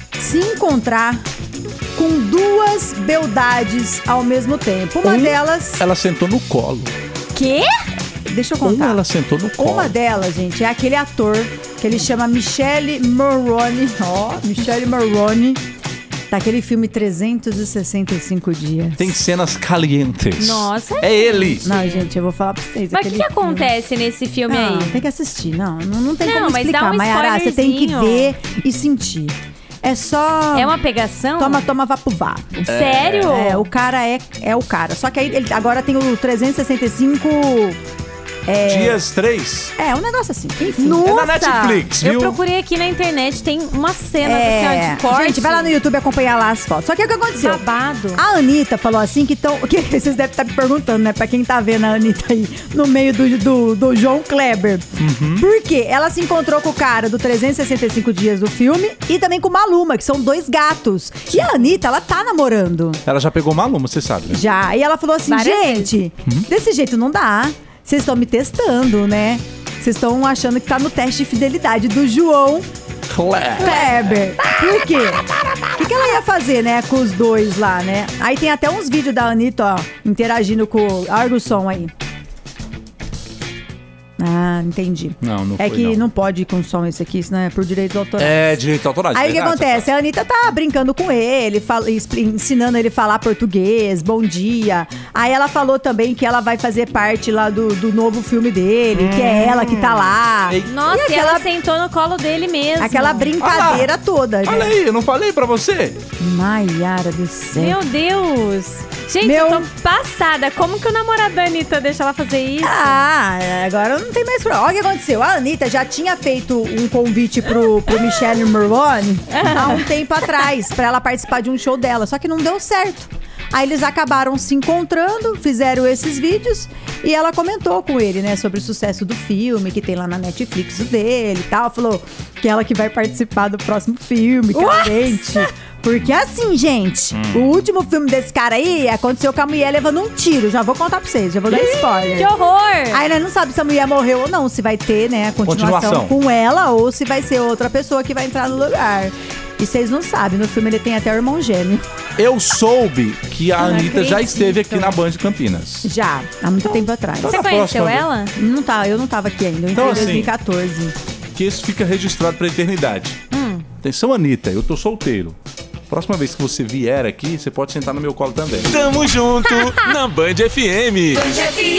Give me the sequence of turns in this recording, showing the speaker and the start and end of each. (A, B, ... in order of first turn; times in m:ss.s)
0:00.2-0:01.2 A
0:02.0-0:05.8 A
0:05.0-0:06.9 B
0:07.3-0:07.7 C
0:08.2-0:09.0 A
0:08.6-0:10.0 B
0:09.6-0:15.6 A
0:16.3-0:19.2 A
0:19.0-0:21.7 B
0:20.4-0:22.1 C
0:21.6-0:23.7 A
0:22.9-0:25.0 C
0:24.5-0:30.8 A
0:26.2-0:28.3 C
0:30.5-0:31.7 C
0:31.4-0:37.8 A
0:32.7-0:33.4 B
0:32.7-0:33.7 C
0:38.5-0:39.0 A
0:38.7-0:39.7 B
0:39.8-0:41.3 A
0:40.8-0:45.8 C
0:41.0-0:42.4 B
0:44.2-0:47.6 A
0:47.3-0:48.2 C
0:48.2-0:54.9 A
0:55.0-0:55.5 B
0:55.4-1:03.0 A
1:03.1-1:04.4 B
1:04.3-1:12.7 A
1:05.3-1:05.9 C
1:13.1-1:13.8 B
1:13.6-1:15.2 A
1:13.6-1:14.5 C
1:15.8-1:21.9 A
1:24.2-1:28.6 A
1:25.2-1:26.0 B
1:28.2-1:29.9 B
1:29.1-1:41.5 A
1:38.9-1:40.7 B
1:40.7-1:43.3 C
1:42.8-1:44.8 A
1:43.4-1:43.9 B
1:44.4-1:46.0 B
1:46.2-1:47.8 A
1:47.6-1:53.0 C
1:49.2-1:49.7 A
1:52.6-2:22.3 A
1:59.3-1:59.9 C
2:14.5-2:15.5 C
2:17.1-2:17.6 B
2:21.5-2:23.0 C
2:22.9-2:31.8 A
2:25.4-2:26.2 B
2:32.2-2:35.9 B
2:33.6-2:35.0 C
2:33.6-2:33.9 A
2:35.8-2:37.4 A
2:36.7-2:38.4 C
2:37.2-2:38.1 B
2:38.4-2:41.0 A
2:39.8-2:40.2 C
2:39.8-2:40.3 B
2:41.4-2:43.2 B
2:43.3-2:43.7 C
2:43.8-2:45.4 B
2:45.9-2:49.2 B
2:48.7-2:51.6 D
2:49.4-2:50.0 C